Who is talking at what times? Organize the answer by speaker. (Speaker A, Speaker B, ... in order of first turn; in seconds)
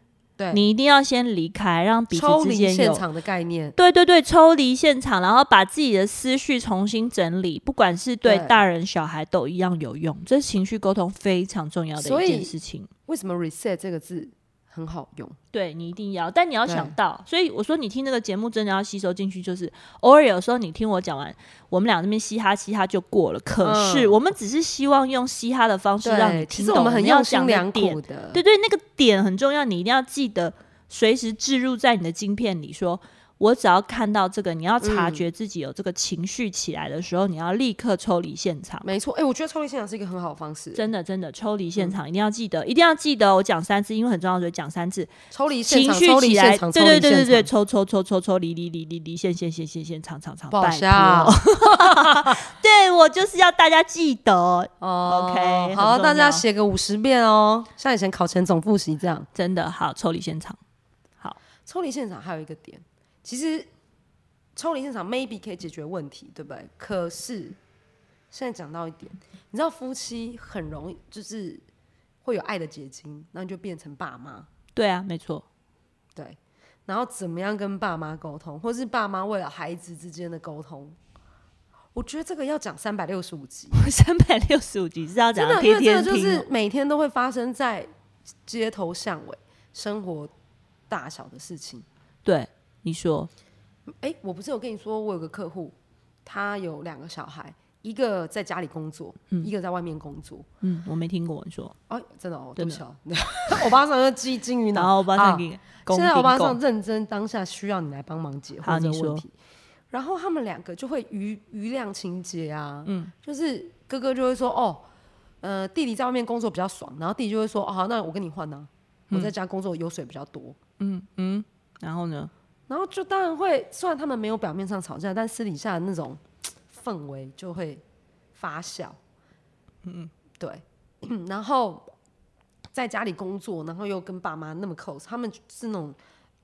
Speaker A: 0.4-0.7, 2.1-3.8, 8.2-8.6, 12.0-12.5, 13.1-15.4, 16.7-17.0, 23.6-24.2, 26.0-28.4, 34.8-35.2, 38.8-40.9, 45.3-47.5, 50.5-52.4, 54.8-59.3, 61.7-63.7, 64.6-67.6, 68.3-71.6, 72.2-74.5, 76.2-81.0, 81.9-83.8, 85.3-87.9, 88.5-90.3, 90.9-91.8, 94.0-100.5, 101.9-109.3, 109.9-114.8, 115.4-120.6, 122.7-127.8, 128.3-129.0, 130.4-131.9, 132.7-136.0
Speaker B: 0.5-3.0, 3.8-12.9, 15.5-38.9, 40.8-45.1, 45.7-56.4, 59.3-60.6, 74.8-75.4, 83.7-86.5, 92.2-93.3, 100.6-101.8, 104.8-106.6, 108.6-109.2, 112.9-113.1, 120.8-122.3, 129.8-130.1